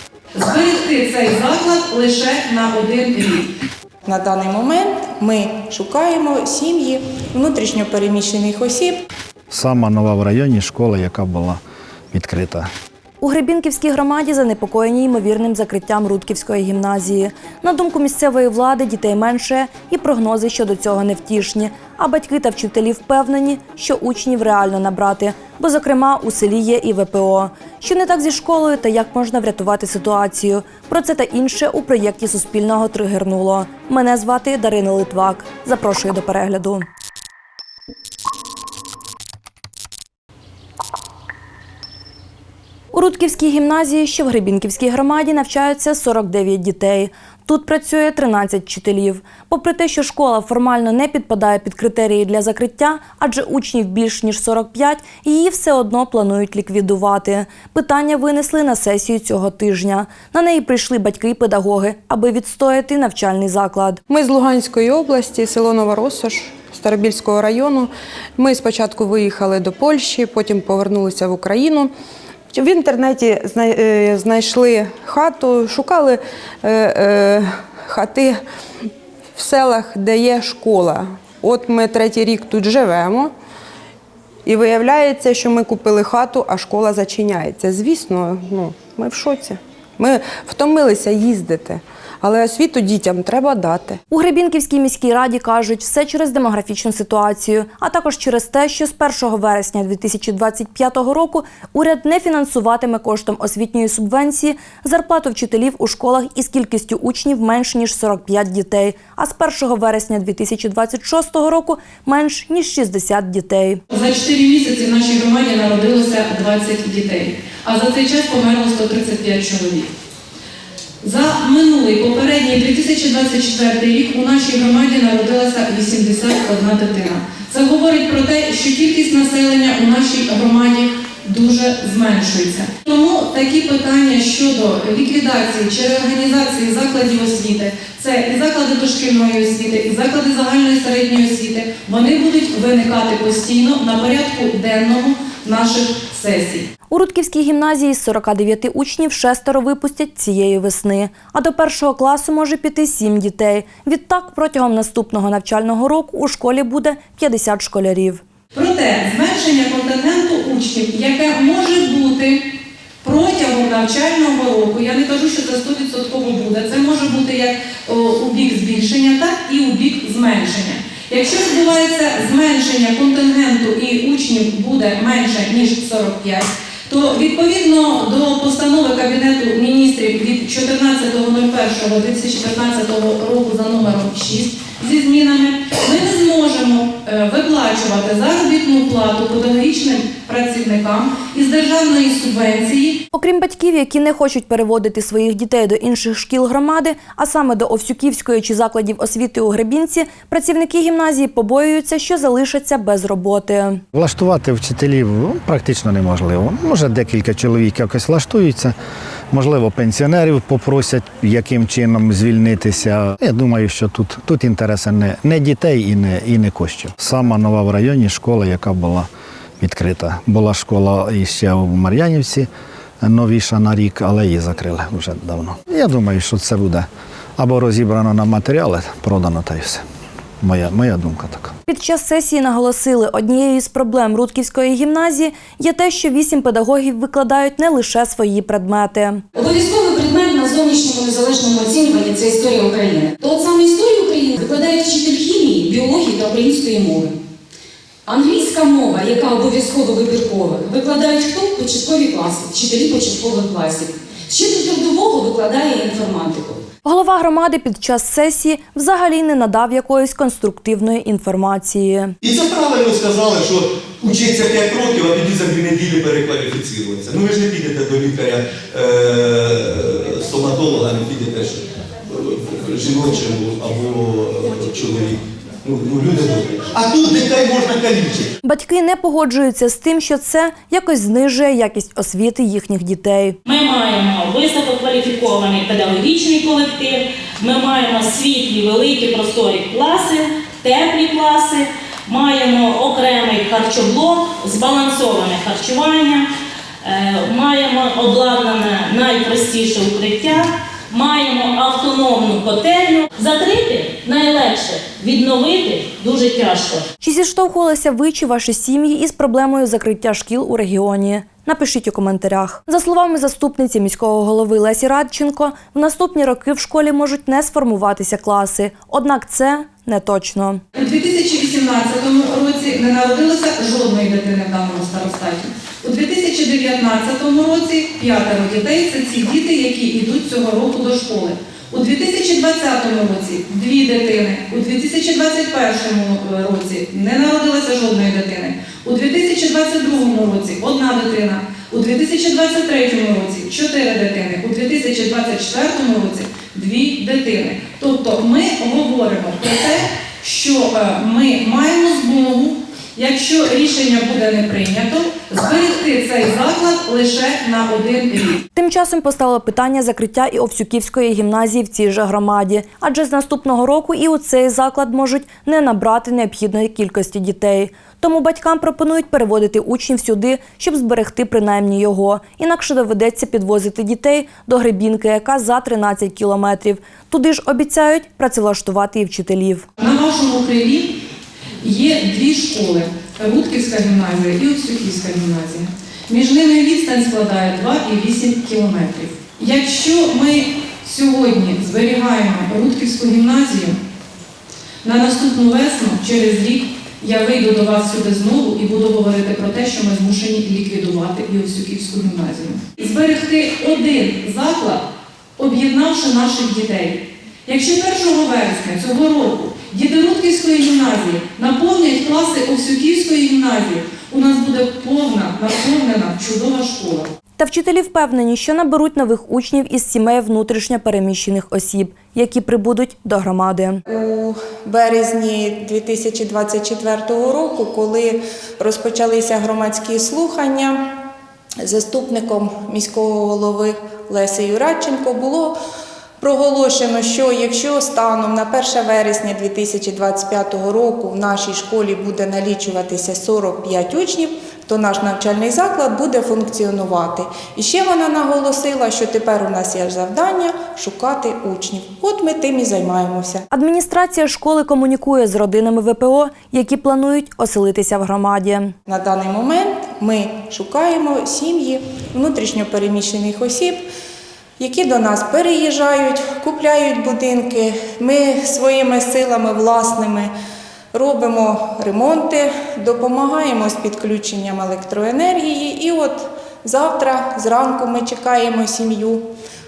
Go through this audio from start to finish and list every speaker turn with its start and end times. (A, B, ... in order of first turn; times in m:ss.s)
0:00.4-0:03.5 A
0:04.0-0:09.0 B
0:09.5-0:11.6 C
0:12.1-0:12.7 C
0:13.2-0:36.9 D
0:42.9-1:04.0 D
1:04.1-1:11.9 E
1:12.5-1:18.4 E
1:19.4-1:23.3 E
1:24.5-1:34.0 E
1:34.1-1:53.8 D
1:53.9-1:59.9 A
2:01.0-2:26.6 A
2:26.9-2:38.2 D
2:38.5-2:42.4 A
2:43.0-3:13.0 A
3:13.1-3:23.8 D
3:23.9-3:28.8 C
3:29.3-3:39.1 C
3:39.6-3:42.5 C
3:43.0-3:49.8 C
3:50.4-3:51.5 C
3:51.7-3:59.2 D
3:59.4-4:07.2 F
4:08.1-4:16.6 F
4:16.8-4:22.2 D
4:22.2-4:38.3 G
4:38.4-4:43.4 D
4:43.5-4:56.3 H
4:56.8-5:06.8 H
5:07.0-5:20.6 D
5:20.8-5:58.4 A
5:58.5-6:19.7 D
6:19.8-6:20.9 A
6:21.6-6:33.8 A
6:34.8-6:44.8 A
6:45.4-6:57.1 A
6:57.4-7:03.8 D
7:03.9-7:10.8 B
7:11.6-7:15.5 B
7:16.2-7:33.4 B
7:33.5-7:38.7 D
7:38.9-7:43.8 B
7:44.6-7:50.3 B
7:50.9-7:59.3 B